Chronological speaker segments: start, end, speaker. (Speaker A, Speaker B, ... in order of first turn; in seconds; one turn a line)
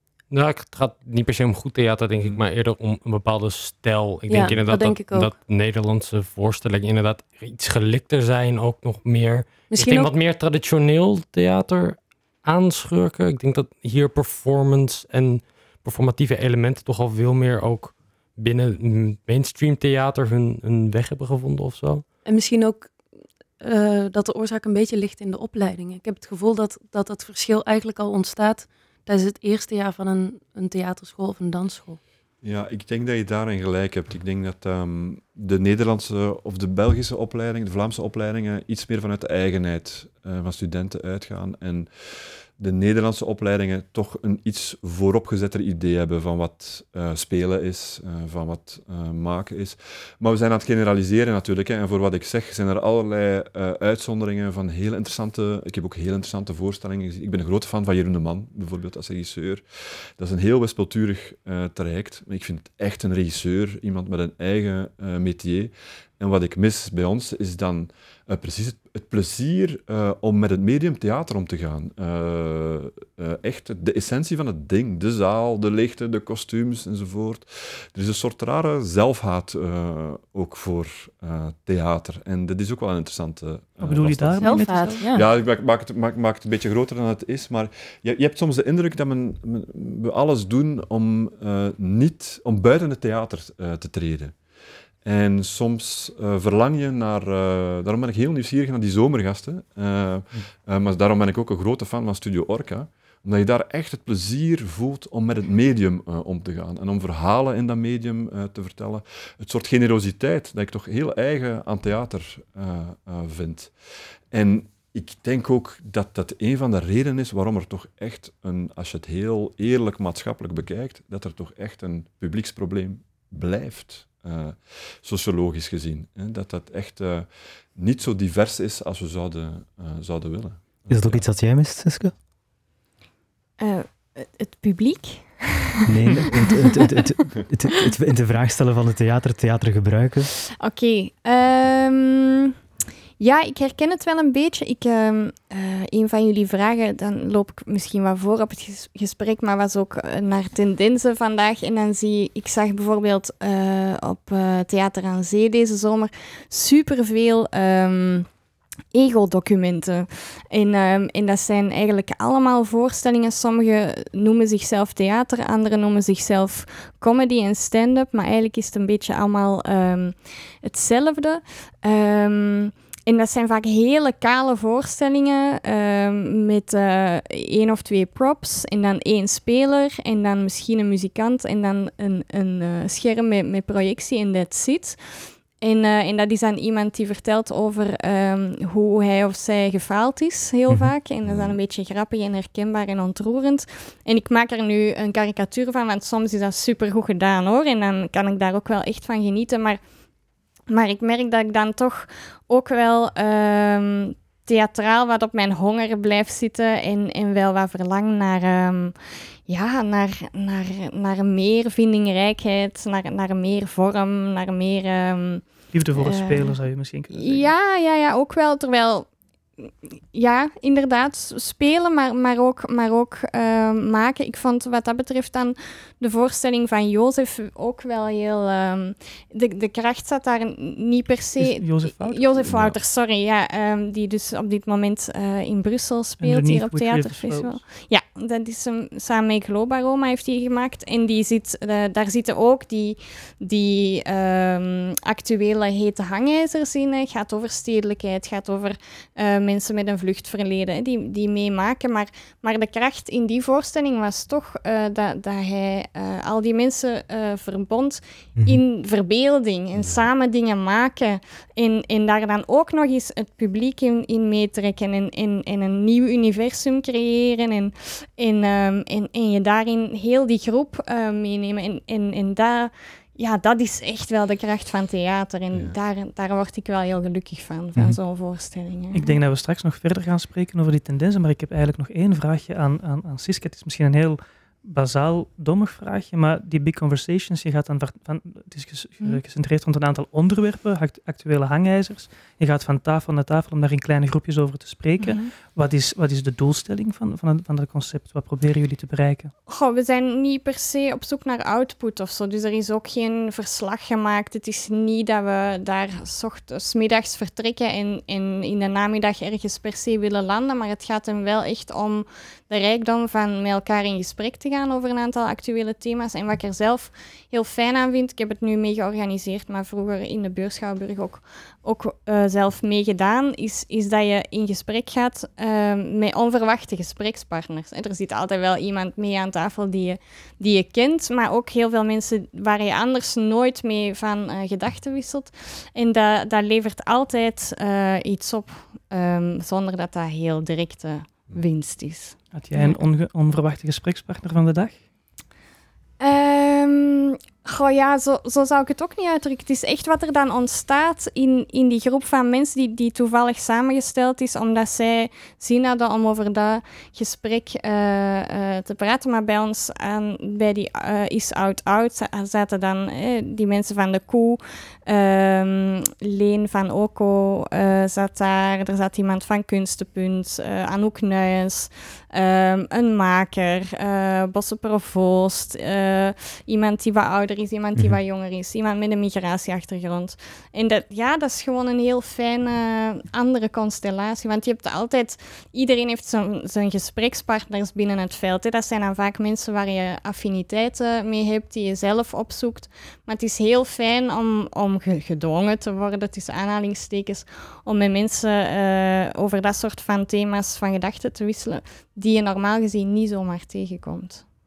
Speaker A: 0.3-22.0
Speaker B: 4.3-5.3
Speaker B: 9.7-10.1
Speaker B: 22.2-23.0
Speaker B: 23.6-32.0
Speaker C: 32.4-59.6
Speaker C: 60.2-94.4
Speaker D: 83.8-85.1
Speaker B: 84.4-85.3
Speaker C: 95.0-113.7
Speaker C: 114.3-131.2
Speaker E: 130.9-132.1
Speaker F: 133.6-136.8
Speaker E: 135.9-140.3
Speaker F: 140.6-142.5
Speaker F: 143.2-158.3
Speaker F: 158.9-185.0
Speaker F: 185.6-199.8
Speaker E: 190.7-190.9
Speaker C: 191.2-191.6
Speaker F: 200.7-208.9
Speaker F: 209.5-219.1
Speaker D: 215.7-217.5
Speaker F: 219.6-279.1
Speaker D: 231.4-232.4
Speaker C: 232.4-232.8
Speaker D: 236.2-237.6
Speaker E: 258.4-258.6
Speaker C: 259.8-260.0
Speaker D: 278.9-299.3
Speaker F: 295.0-295.3
Speaker F: 299.5-342.8
Speaker D: 342.3-344.8
Speaker F: 346.0-404.2